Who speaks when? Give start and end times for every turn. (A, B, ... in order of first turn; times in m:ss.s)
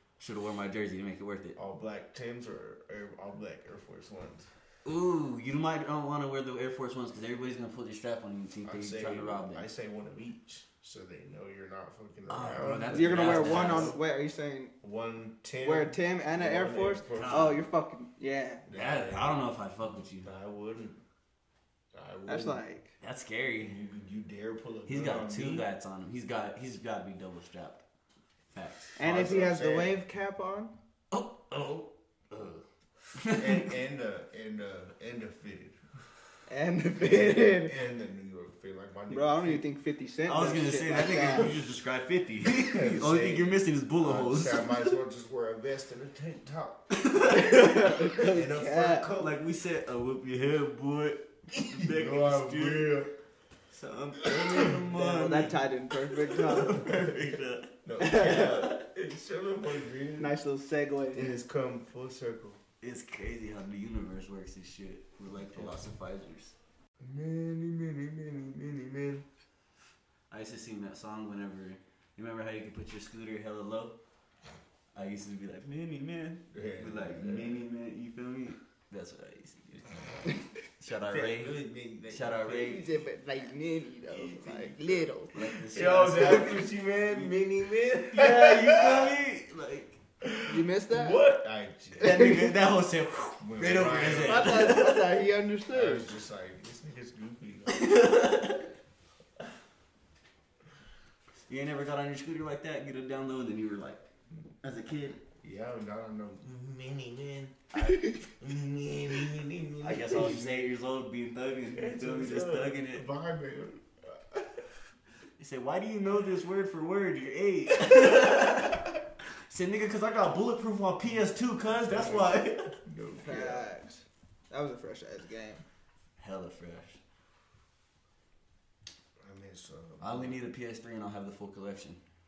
0:00.2-0:01.6 A
0:01.6-0:04.5 B
0:04.8-0:09.6 A
0:08.6-0:14.0 B
0:12.3-0:14.0 A
0:12.9-0:14.7 C
0:14.8-0:17.7 B
0:15.6-0:18.6 C
0:17.1-0:17.6 A
0:18.7-0:19.4 B
0:18.7-0:20.3 A
0:20.2-0:21.0 B
0:21.9-0:22.6 B
0:22.3-0:22.9 C
0:23.0-0:23.8 A
0:23.6-0:25.7 B
0:24.9-0:27.8 A
0:28.5-0:29.0 A
0:29.0-0:30.7 C
0:29.0-0:30.0 B
0:31.1-0:31.8 A
0:31.5-0:31.8 B
0:32.3-0:32.6 B
0:33.2-0:33.7 A
0:33.3-0:35.8 B
0:36.5-0:37.8 C
0:37.0-0:39.6 B
0:39.1-0:41.6 C
0:40.3-0:45.0 A
0:42.6-0:47.0 B
0:46.9-0:48.0 A
0:47.2-0:49.1 C
0:48.2-0:49.4 B
0:49.2-0:53.1 A
0:51.6-0:53.1 B
0:53.7-0:58.8 A
0:54.4-0:54.7 B
0:54.8-0:56.9 C
0:57.8-1:00.4 B
0:58.0-0:58.6 C
1:00.2-1:01.4 C
1:01.1-1:02.6 B
1:02.8-1:06.6 A
1:07.0-1:09.2 B
1:10.3-1:14.0 A
1:14.9-1:19.9 A
1:16.5-1:17.6 B
1:20.7-1:21.6 A
1:21.0-1:22.9 B
1:22.1-1:22.8 A
1:22.7-1:25.3 C
1:24.1-1:29.2 B
1:25.3-1:27.4 A
1:28.1-1:30.0 A
1:30.2-1:32.4 B
1:30.5-1:31.2 C
1:32.0-1:32.6 C
1:32.0-1:35.1 A
1:33.4-1:34.8 B
1:34.2-1:36.1 C
1:35.7-1:38.1 B
1:37.7-1:38.7 A
1:41.5-1:44.0 A
1:44.6-1:45.2 A
1:45.4-1:47.6 B
1:47.7-1:48.2 A
1:48.3-1:50.8 B
1:49.8-1:53.1 A
1:51.8-1:54.7 B
1:55.4-2:02.8 A
2:01.8-2:03.7 B
2:03.2-2:05.6 C
2:06.2-2:07.0 A
2:09.2-2:10.4 B
2:10.0-2:12.0 A